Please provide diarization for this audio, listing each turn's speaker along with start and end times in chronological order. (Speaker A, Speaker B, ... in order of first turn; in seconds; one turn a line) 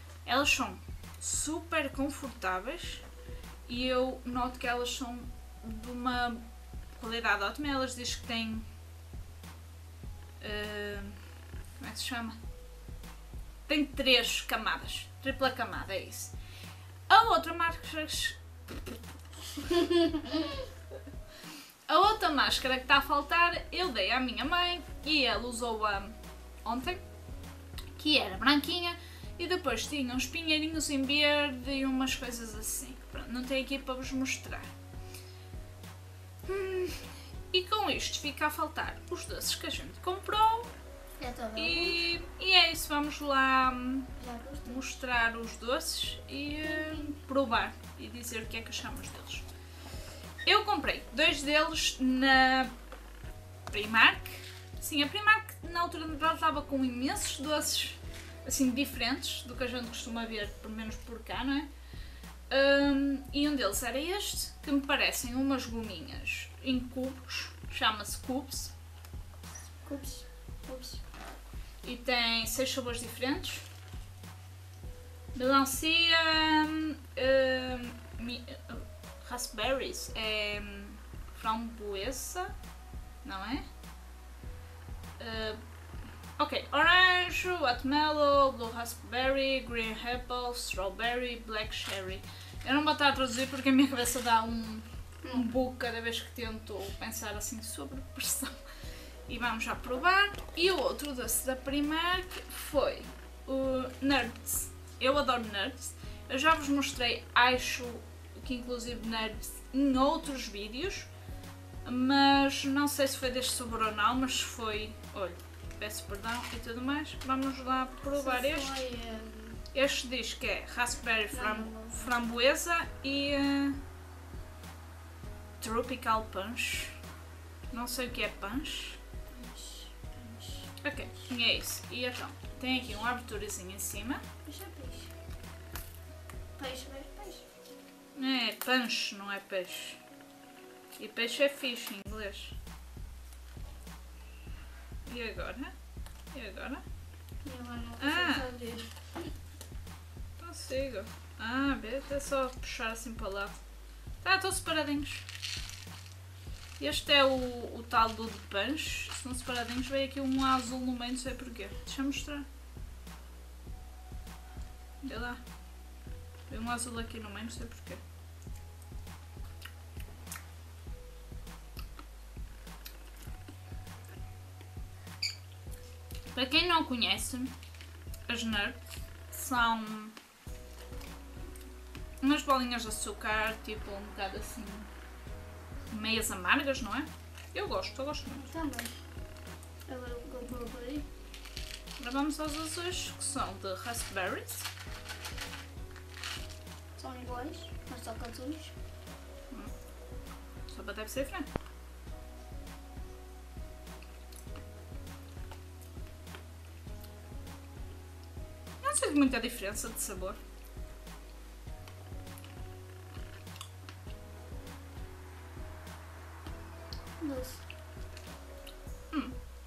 Speaker A: 0.2-3.0
Speaker A: 3.7-6.4
Speaker A: 7.0-8.7
Speaker A: 10.4-11.2
Speaker A: 11.8-12.4
Speaker A: 13.7-16.3
Speaker A: 17.1-18.4
Speaker A: 21.9-27.0
Speaker A: 28.0-34.7
Speaker A: 36.5-40.7
Speaker B: 41.2-42.0
Speaker A: 41.5-44.1
Speaker B: 44.2-44.8
Speaker A: 44.6-49.5
Speaker B: 46.7-47.1
Speaker A: 50.4-52.7
Speaker A: 53.7-61.7
Speaker A: 62.5-68.7
Speaker B: 69.8-71.0
Speaker A: 71.8-73.6
Speaker A: 75.3-82.5
Speaker A: 83.2-83.6
Speaker A: 85.2-85.6
Speaker A: 86.4-98.5
Speaker B: 95.2-95.5
Speaker A: 99.3-111.1
Speaker A: 111.8-118.8
Speaker B: 118.1-119.6
Speaker A: 119.7-123.8
Speaker B: 121.3-122.1
Speaker A: 125.6-127.0
Speaker A: 127.7-129.0
Speaker B: 129.3-130.7
Speaker A: 130.8-134.2
Speaker B: 134.4-135.1
Speaker B: 136.6-137.4
Speaker A: 138.1-140.0
Speaker A: 141.0-142.6
Speaker A: 145.1-145.7
Speaker A: 146.3-146.8
Speaker B: 147.4-149.3
Speaker A: 148.0-148.5
Speaker A: 150.4-153.6
Speaker A: 154.2-155.2
Speaker A: 156.8-162.4
Speaker A: 165.0-165.4
Speaker A: 166.5-168.0
Speaker A: 176.3-177.5
Speaker A: 178.3-180.1
Speaker A: 182.2-184.9
Speaker A: 185.9-188.4
Speaker B: 188.3-188.9
Speaker B: 189.9-191.1
Speaker A: 192.0-194.7
Speaker B: 197.0-198.7
Speaker A: 200.7-201.5
Speaker A: 208.8-210.4
Speaker B: 217.2-217.6